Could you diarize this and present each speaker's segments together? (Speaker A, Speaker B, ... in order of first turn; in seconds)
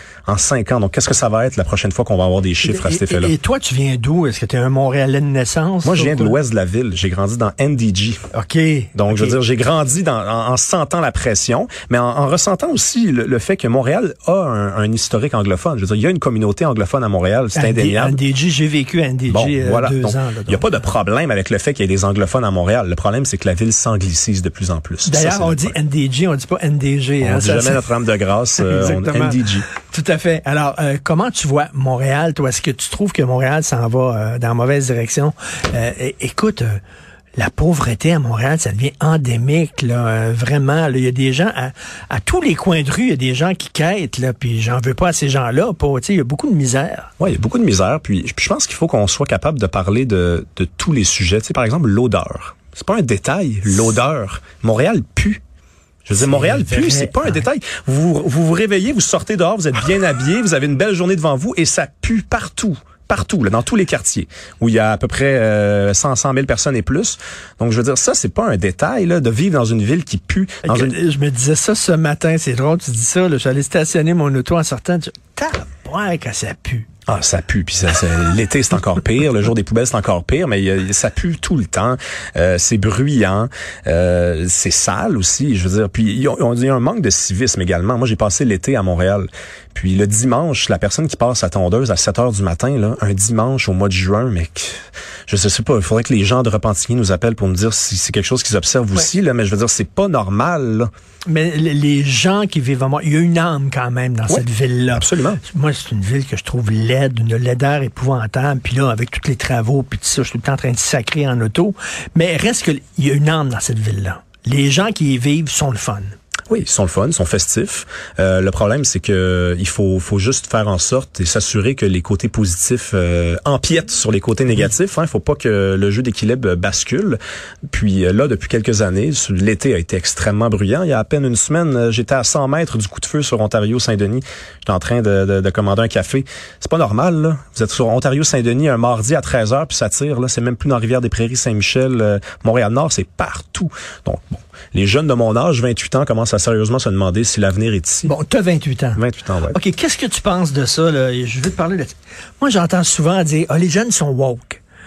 Speaker A: 0.3-3.3, 5.8-8.2, 8.9-18.2, 19.3-25.8, 27.2-29.6, 47.2-55.4, 56.0-71.0, 77.1-100.9, 104.3-105.4, 116.5-127.2, 127.7-148.1, 148.9-149.6
Speaker B: 2.6-6.3, 8.3-9.4, 17.5-20.7, 25.1-27.9, 28.6-36.8, 37.4-47.1, 56.2-57.4, 70.6-76.9, 101.3-116.1, 148.1-154.6